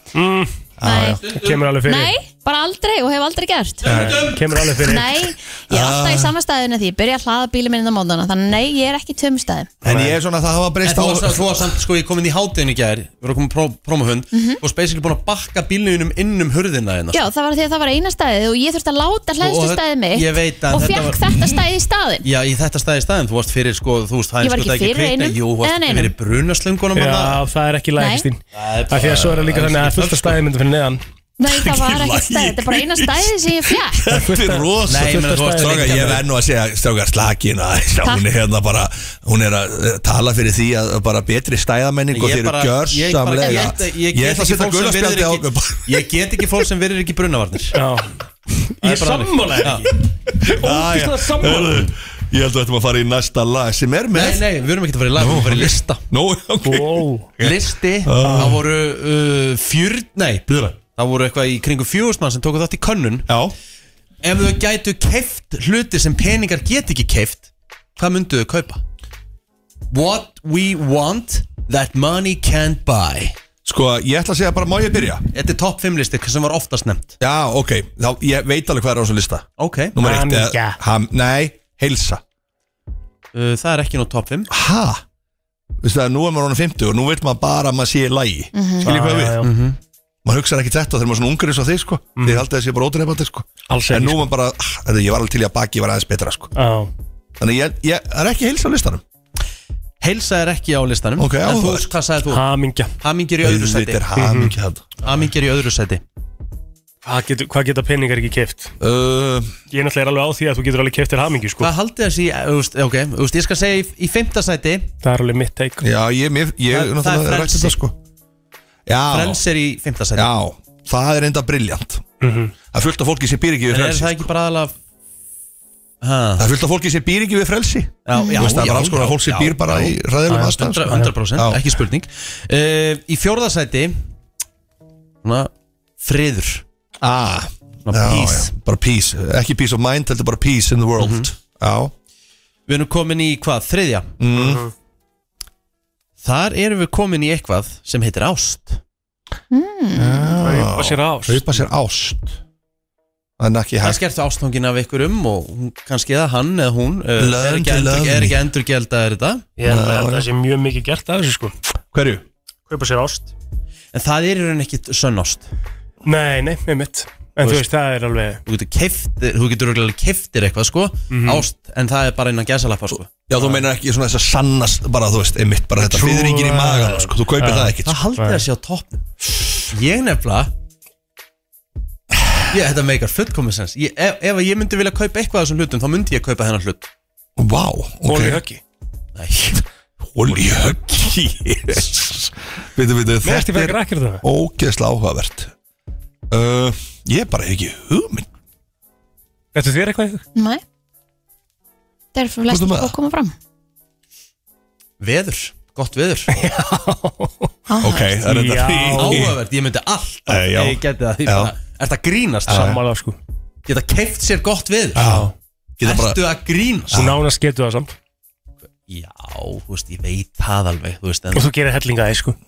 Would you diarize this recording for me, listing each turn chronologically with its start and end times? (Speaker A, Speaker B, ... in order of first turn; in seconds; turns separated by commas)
Speaker A: 0.1-0.5, Speaker B: 0.8-1.2, Speaker C: 0.8-1.2, Speaker D: 1.0-1.6, Speaker A: 1.4-2.1, Speaker C: 1.9-4.0, Speaker D: 3.8-4.4, Speaker A: 3.9-5.2, Speaker B: 3.9-4.4, Speaker C: 4.8-9.7, Speaker B: 5.7-6.3, Speaker B: 9.8-11.8, Speaker A: 9.8-10.2, Speaker D: 10.8-17.2, Speaker C: 14.3-14.6, Speaker C: 17.1-22.2, Speaker D: 19.4-21.6, Speaker D: 22.2-27.4, Speaker C: 24.4-26.1, Speaker A: 26.9-31.0, Speaker C: 28.0-28.2, Speaker D: 28.5-30.4, Speaker C: 31.4-34.1, Speaker B: 31.4-46.6, Speaker A: 34.1-36.2, Speaker D: 34.9-36.2, Speaker D: 42.1-47.8, Speaker C: 43.4-43.7, Speaker A: 47.7-48.1, Speaker A: 48.7-49.9, Speaker D: 48.8-49.9, Speaker B: 50.4-54.4, Speaker A: 50.5-51.9, Speaker D: 54.1-56.0, Speaker B: 55.1-58.6, Speaker A: 56.6-57.3, Speaker D: 57.4-63.3, Speaker A: 58.2-58.6, Speaker B: 63.3-63.5, Speaker D: 64.2-68.8, Speaker D: 69.9-73.4, Speaker B: 73.6-75.2, Speaker D: 75.3-77.2, Speaker B: 77.2-82.2, Speaker D: 79.6-80.0, Speaker A: 80.0-80.8, Speaker D: 83.3-84.5, Speaker B: 84.5-85.0, Speaker B: 85.8-89.4, Speaker C: 88.5-88.9, Speaker A: 88.8-89.5, Speaker D: 89.4-89.8, Speaker B: 90.2-96.5, Speaker A: 92.2-92.4, Speaker A: 93.7-94.2, Speaker A: 96.5-96.9, Speaker B: 97.4-99.0, Speaker D: 100.0-102.4, Speaker B: 101.2-101.9, Speaker A: 102.3-102.9, Speaker D: 103.0-104.1, Speaker B: 103.4-105.0, Speaker A: 104.2-104.5, Speaker D: 105.0-106.0, Speaker A: 107.0-108.7, Speaker B: 108.8-109.5, Speaker A: 109.7-111.7, Speaker D: 111.6-114.9, Speaker A: 115.0-115.8, Speaker B: 115.8-117.9, Speaker D: 116.7-117.8, Speaker B: 118.8-119.4, Speaker D: 119.1-120.3, Speaker B: 120.1-122.0, Speaker A: 122.2-122.5, Speaker B: 122.7-124.3, Speaker D: 123.7-124.7, Speaker D: 126.0-126.5, Speaker B: 126.4-131.7, Speaker D: 128.0-130.0, Speaker C: 128.1-128.6, Speaker A: 130.3-131.1, Speaker D: 130.5-134.0, Speaker D: 135.2-136.6, Speaker B: 137.0-141.9, Speaker D: 137.8-138.5, Speaker D: 141.0-141.3, Speaker D: 142.7-144.1, Speaker B: 144.2-144.6, Speaker A: 144.3-144.7, Speaker D: 146.2-148.8, Speaker C: 149.5-150.4, Speaker B: 149.9-152.4, Speaker A: 150.4-151.6, Speaker B: 153.4-154.0, Speaker D: 153.8-159.5, Speaker B: 157.2-158.4, Speaker A: 159.6-161.5, Speaker B: 159.6-160.3, Speaker B: 161.9-162.2, Speaker A: 162.7-163.3, Speaker D: 163.9-165.5, Speaker A: 166.0-168.4, Speaker D: 168.5-173.2, Speaker A: 171.1-171.4, Speaker B: 173.2-177.9, Speaker A: 175.8-178.4, Speaker D: 177.8-180.5, Speaker D: 182.5-186.9, Speaker B: 187.4-188.4, Speaker A: 188.1-188.6, Speaker D: 189.1-189.6, Speaker B: 190.1-195.5, Speaker D: 190.3-190.9, Speaker A: 193.2-194.2, Speaker B: 196.3-198.3, Speaker A: 199.5-200.2, Speaker C: 200.3-200.6, Speaker C: 202.1-203.3, Speaker B: 202.5-202.9, Speaker D: 205.0-206.3, Speaker A: 206.3-207.5, Speaker C: 207.7-208.2, Speaker B: 207.8-209.4, Speaker A: 208.2-209.3, Speaker D: 208.9-212.8, Speaker B: 210.3-211.5, Speaker B: 212.5-212.8, Speaker A: 212.5-213.2, Speaker D: 213.7-215.1, Speaker B: 214.9-216.2, Speaker A: 215.0-215.3, Speaker D: 215.8-217.1, Speaker B: 216.9-217.2, Speaker A: 216.9-217.9, Speaker D: 218.9-221.5, Speaker A: 221.3-222.4